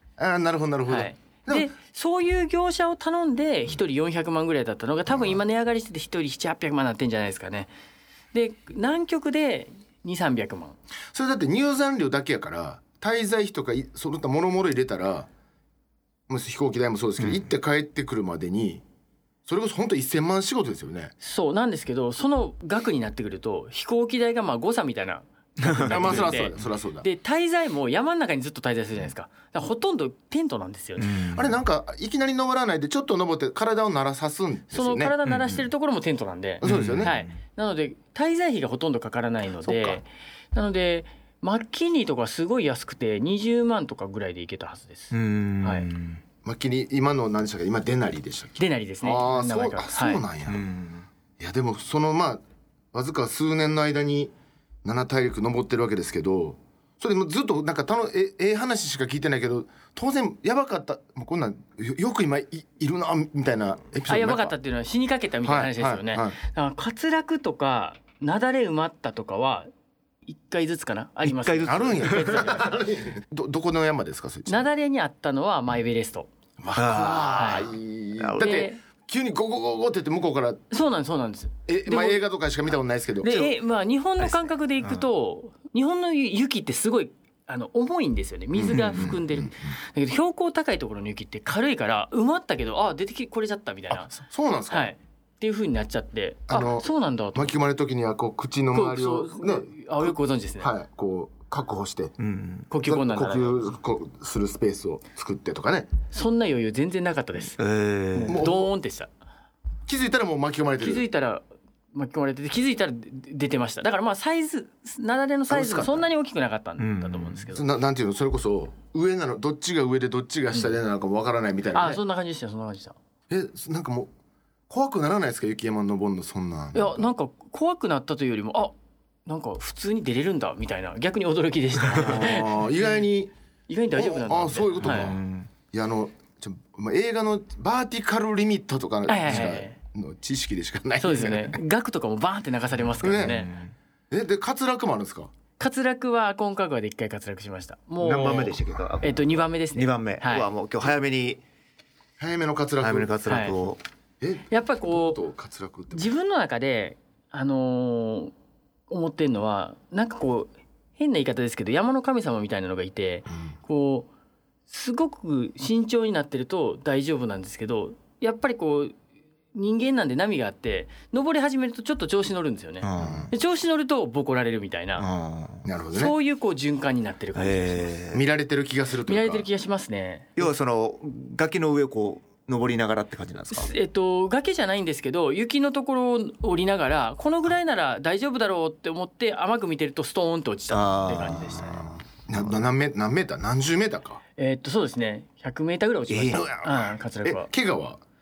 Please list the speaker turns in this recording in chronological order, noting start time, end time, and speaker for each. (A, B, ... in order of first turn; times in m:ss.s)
0:00.2-0:01.7 A
0:00.9-0:07.7 B
0:08.3-0:10.8 B
0:11.1-0:15.3 A
0:16.3-0:18.8 A
0:19.4-0:21.1 A
0:21.2-0:31.1 B
0:25.7-0:26.3 C
0:25.9-0:27.0 A
0:31.0-0:31.5 C
0:31.3-0:35.1 A
0:34.7-0:45.9 B
0:35.2-0:35.6 C
0:36.6-0:37.2 A
0:36.6-0:37.3 C
0:39.6-0:40.0 A
0:45.1-0:46.2 C
0:46.4-0:50.6 A
0:48.6-0:50.2 B
0:50.5-0:51.1 C
0:51.4-0:52.4 A
0:52.9-0:54.3 A
0:54.8-1:04.6 A
1:04.1-1:09.7 B
1:05.4-1:06.4 A
1:10.3-1:12.8 B
1:11.2-1:12.5 C
1:11.6-1:14.7 A
1:14.5-1:16.3 B
1:16.6-1:20.6 A
1:16.7-1:18.6 C
1:17.3-1:17.7 B
1:18.4-1:18.8 B
1:20.7-1:22.2 B
1:21.7-1:23.5 A
1:23.2-1:34.1 B
1:28.5-1:29.7 A
1:28.7-1:29.1 C
1:34.1-1:34.9 A
1:34.7-1:37.6 B
1:36.5-1:42.1 A
1:38.7-1:40.7 B
1:42.2-1:42.7 C
1:42.7-1:43.7 B
1:42.8-1:45.9 A
1:46.1-1:47.6 B
1:47.6-1:48.4 C
1:48.1-1:49.1 B
1:48.3-1:48.7 A
1:49.9-1:51.0 A
1:50.8-1:57.6 B
1:55.5-1:56.1 A
1:56.8-1:57.4 C
1:57.5-2:02.0 A
2:01.7-2:03.0 B
2:03.3-2:04.1 A
2:04.7-2:07.1 A
2:06.7-2:08.7 B
2:09.2-2:12.6 B
2:11.9-2:13.3 A
2:13.7-2:15.1 B
2:13.9-2:15.2 A
2:14.8-2:15.5 C
2:15.7-2:21.6 A
2:19.1-2:19.8 B
2:21.0-2:23.5 B
2:23.0-2:23.4 A
2:23.1-2:23.7 C
2:24.1-2:25.3 A
2:25.6-2:30.5 B
2:28.0-2:31.4 C
2:32.2-2:33.2 A
2:32.8-2:33.8 C
2:33.2-2:33.6 B
2:34.2-2:36.1 A
2:34.5-2:35.2 B
2:35.9-2:38.3 B
2:38.9-2:44.1 B
2:44.7-2:49.0 B
2:49.5-2:55.0 B
2:52.8-2:53.3 C
2:53.0-2:53.3 A
2:55.0-2:55.6 C
2:55.6-2:56.1 A
2:55.9-2:57.9 B
2:57.3-2:58.2 C
2:58.1-2:59.5 A
2:59.1-3:00.5 B
3:00.4-3:03.7 C
3:03.5-3:11.9 B
3:10.7-3:11.9 C
3:12.3-3:14.2 A
3:14.4-3:17.5 B
3:16.1-3:16.5 C
3:16.3-3:18.0 A